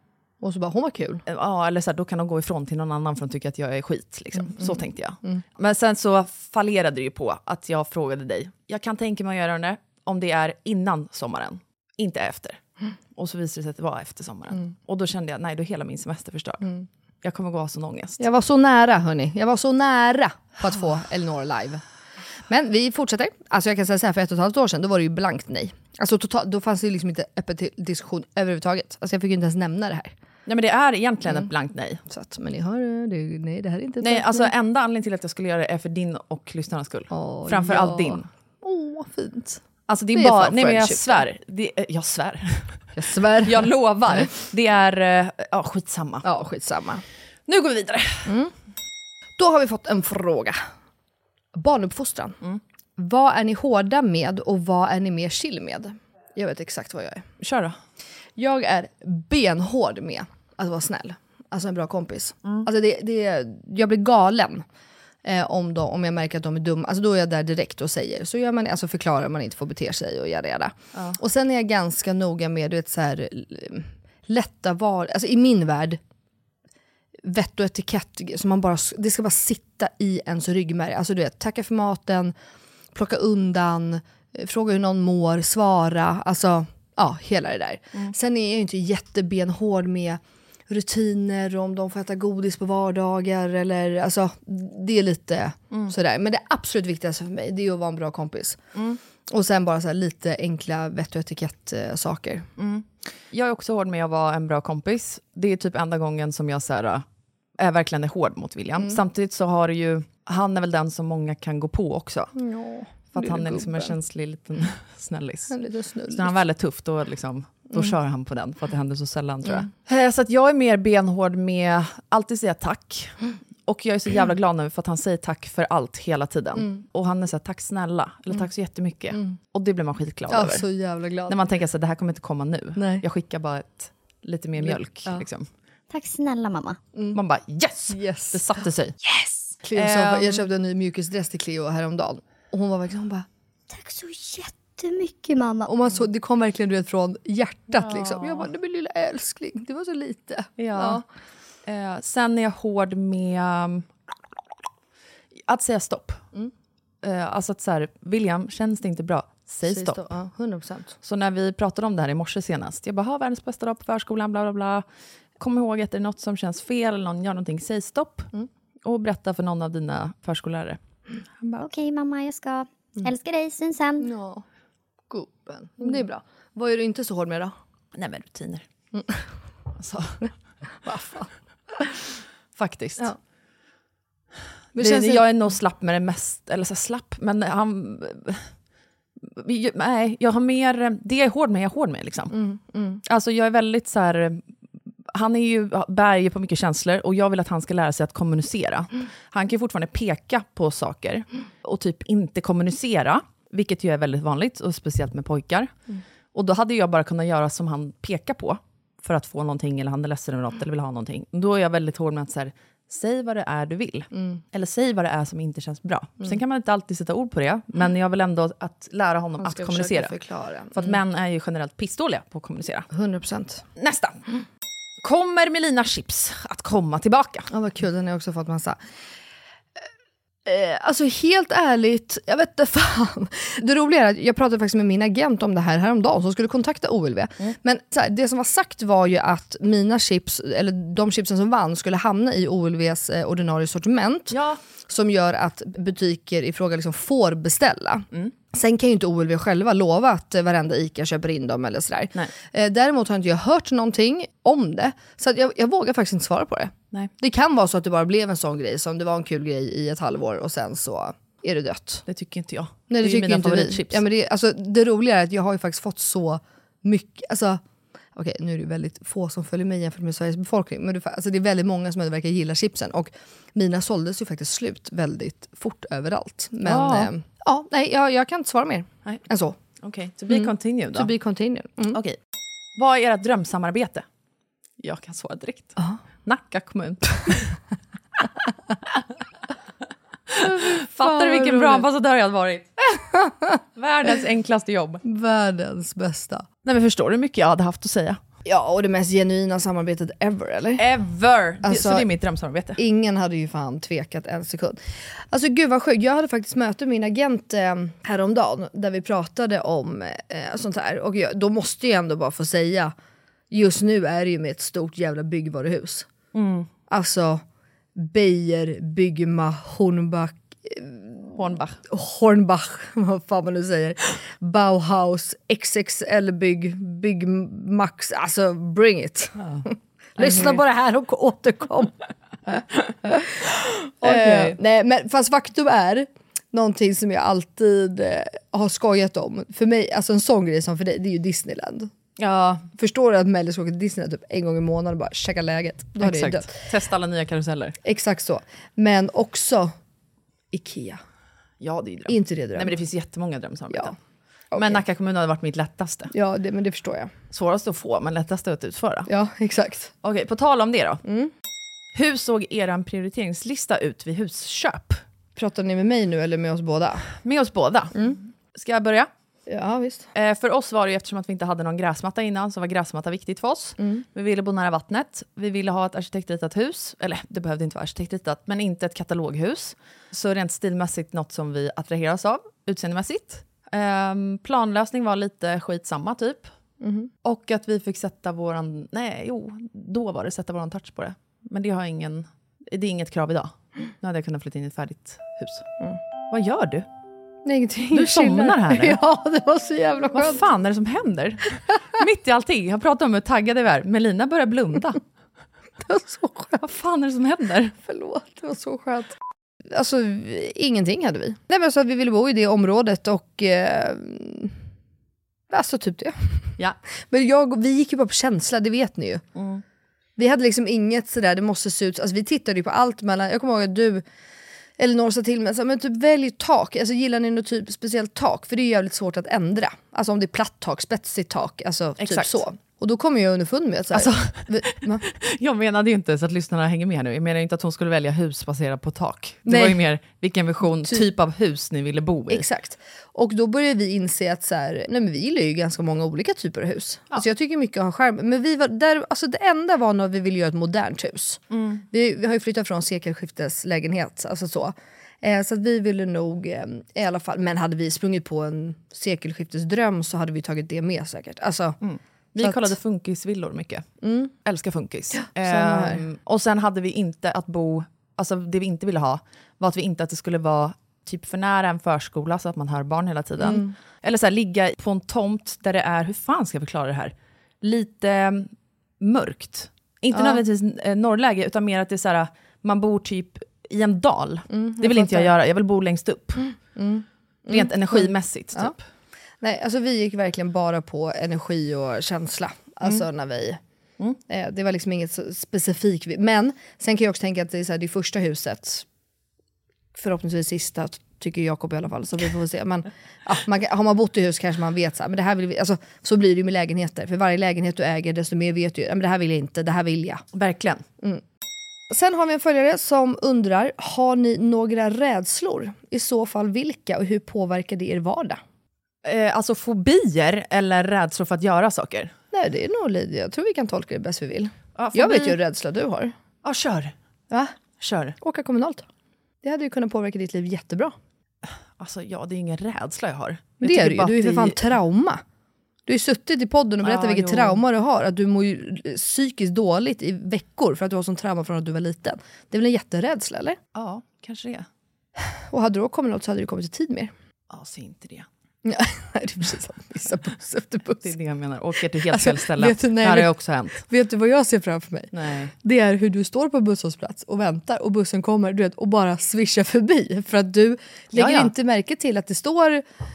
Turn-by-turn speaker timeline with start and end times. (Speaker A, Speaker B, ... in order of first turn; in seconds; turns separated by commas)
Speaker A: 0.4-1.2, Speaker B: 1.2-12.6, Speaker A: 4.3-5.4, Speaker B: 13.1-16.6, Speaker B: 17.2-18.2, Speaker A: 18.2-21.8, Speaker A: 22.5-30.1, Speaker B: 30.4-32.0, Speaker A: 32.1-34.5, Speaker B: 34.0-38.3, Speaker A: 37.1-41.2, Speaker B: 39.9-42.8, Speaker A: 42.9-44.3, Speaker B: 43.4-46.2, Speaker A: 46.2-47.0, Speaker B: 47.5-48.3, Speaker A: 48.2-48.5, Speaker A: 49.4-50.6, Speaker A: 51.5-52.4, Speaker A: 53.0-57.2, Speaker B: 57.4-57.8, Speaker A: 58.4-64.6, Speaker A: 65.2-76.0, Speaker B: 70.9-71.2, Speaker A: 77.2-82.3, Speaker A: 82.9-98.6, Speaker A: 99.3-102.5, Speaker B: 102.6-107.0, Speaker B: 107.6-112.3, Speaker A: 112.3-113.9, Speaker B: 113.1-115.5, Speaker A: 115.5-116.3, Speaker B: 116.1-130.6, Speaker A: 126.5-126.8, Speaker A: 129.1-129.4, Speaker A: 130.3-131.4, Speaker B: 131.3-135.5, Speaker A: 132.8-133.0, Speaker A: 134.6-135.2, Speaker C: 135.9-136.8, Speaker B: 137.1-140.4, Speaker A: 137.9-138.6, Speaker A: 139.6-143.2, Speaker C: 143.7-145.7, Speaker A: 145.7-151.0, Speaker B: 147.7-148.5, Speaker B: 150.6-151.0, Speaker B: 151.7-153.8, Speaker B: 155.3-156.2, Speaker B: 157.0-160.0, Speaker A: 159.7-160.9, Speaker B: 161.0-164.8, Speaker B: 165.4-168.3, Speaker B: 168.8-170.8, Speaker C: 171.6-174.1, Speaker A: 174.0-174.4, Speaker A: 175.1-177.5, Speaker B: 177.9-178.6, Speaker A: 178.9-179.2, Speaker B: 179.8-180.2, Speaker A: 180.8-181.9, Speaker B: 182.6-183.1, Speaker A: 184.7-185.3, Speaker B: 184.8-188.5, Speaker B: 189.2-192.3, Speaker A: 192.3-193.0, Speaker B: 193.0-194.4, Speaker B: 195.1-205.7, Speaker B: 206.3-220.1, Speaker A: 214.1-214.4, Speaker A: 219.4-221.0, Speaker B: 220.7-222.9, Speaker A: 222.9-223.6, Speaker B: 223.8-224.2, Speaker B: 225.0-227.5, Speaker A: 227.5-228.8, Speaker A: 230.4-244.4, Speaker B: 244.3-244.6, Speaker A: 244.9-262.0, Speaker B: 262.1-264.0, Speaker A: 262.9-267.6, Speaker A: 268.1-279.6, Speaker B: 276.6-277.1, Speaker B: 279.8-281.1, Speaker A: 280.3-282.0, Speaker B: 281.9-282.2, Speaker B: 282.8-284.1, Speaker B: 284.8-287.5, Speaker B: 290.3-293.1, Speaker A: 290.4-291.9, Speaker A: 293.1-293.6, Speaker B: 293.7-295.0, Speaker A: 295.0-296.4, Speaker B: 296.6-298.2, Speaker A: 298.4-300.9, Speaker B: 300.8-302.8, Speaker A: 301.6-302.1, Speaker A: 302.8-304.8, Speaker A: 305.3-312.9, Speaker A: 313.5-316.1, Speaker B: 316.3-316.7, Speaker A: 316.9-317.4, Speaker A: 317.9-331.9, Speaker B: 321.4-321.8, Speaker B: 330.2-330.6, Speaker A: 332.5-341.9, Speaker B: 334.0-334.6, Speaker B: 342.2-342.6, Speaker A: 342.6-346.6, Speaker B: 346.0-347.8, Speaker A: 347.8-349.7, Speaker A: 350.5-351.0, Speaker B: 351.6-353.9, Speaker A: 352.1-352.7, Speaker A: 354.5-354.8, Speaker B: 354.5-356.1, Speaker A: 356.1-357.1, Speaker B: 357.3-359.1, Speaker A: 359.1-359.9, Speaker B: 360.0-361.0, Speaker A: 361.0-361.3, Speaker B: 361.9-365.0, Speaker A: 365.4-367.1, Speaker B: 367.2-369.1, Speaker A: 369.5-370.1, Speaker B: 370.1-386.5, Speaker A: 373.8-374.0, Speaker A: 386.8-387.1, Speaker B: 387.2-395.7, Speaker B: 396.3-396.9, Speaker A: 397.4-400.4, Speaker B: 397.9-399.0, Speaker B: 400.1-405.0, Speaker A: 405.8-406.6, Speaker B: 406.6-407.7, Speaker A: 407.8-409.1, Speaker A: 409.7-414.6, Speaker A: 415.5-416.5, Speaker A: 417.1-419.2, Speaker B: 419.4-419.6, Speaker A: 420.2-424.0, Speaker A: 424.8-435.0, Speaker B: 432.0-432.4, Speaker B: 433.9-442.4, Speaker A: 439.4-439.8, Speaker A: 442.3-461.8, Speaker B: 451.5-451.8, Speaker B: 461.8-463.9, Speaker A: 462.4-462.8, Speaker A: 464.0-464.3, Speaker B: 464.4-486.4, Speaker A: 465.2-466.0, Speaker A: 473.4-473.7, Speaker A: 480.1-480.4, Speaker A: 484.5-485.3, Speaker A: 486.7-488.7, Speaker B: 487.5-488.8, Speaker A: 489.4-493.6, Speaker A: 494.3-498.8, Speaker A: 499.9-510.2, Speaker B: 510.3-510.8, Speaker A: 511.9-518.4, Speaker B: 519.0-522.1, Speaker A: 522.3-526.1, Speaker B: 524.7-525.4, Speaker B: 526.4-526.9, Speaker A: 527.3-527.5, Speaker B: 527.8-528.2, Speaker A: 528.2-528.8, Speaker A: 529.4-530.9, Speaker B: 531.4-534.6, Speaker A: 533.6-535.2, Speaker A: 535.9-543.6, Speaker B: 536.8-537.6, Speaker B: 543.7-544.7, Speaker A: 545.2-547.1, Speaker B: 547.5-548.3, Speaker A: 548.6-551.1, Speaker B: 551.0-553.8, Speaker A: 552.0-555.1, Speaker B: 555.1-555.5, Speaker A: 555.6-562.8, Speaker B: 561.1-561.5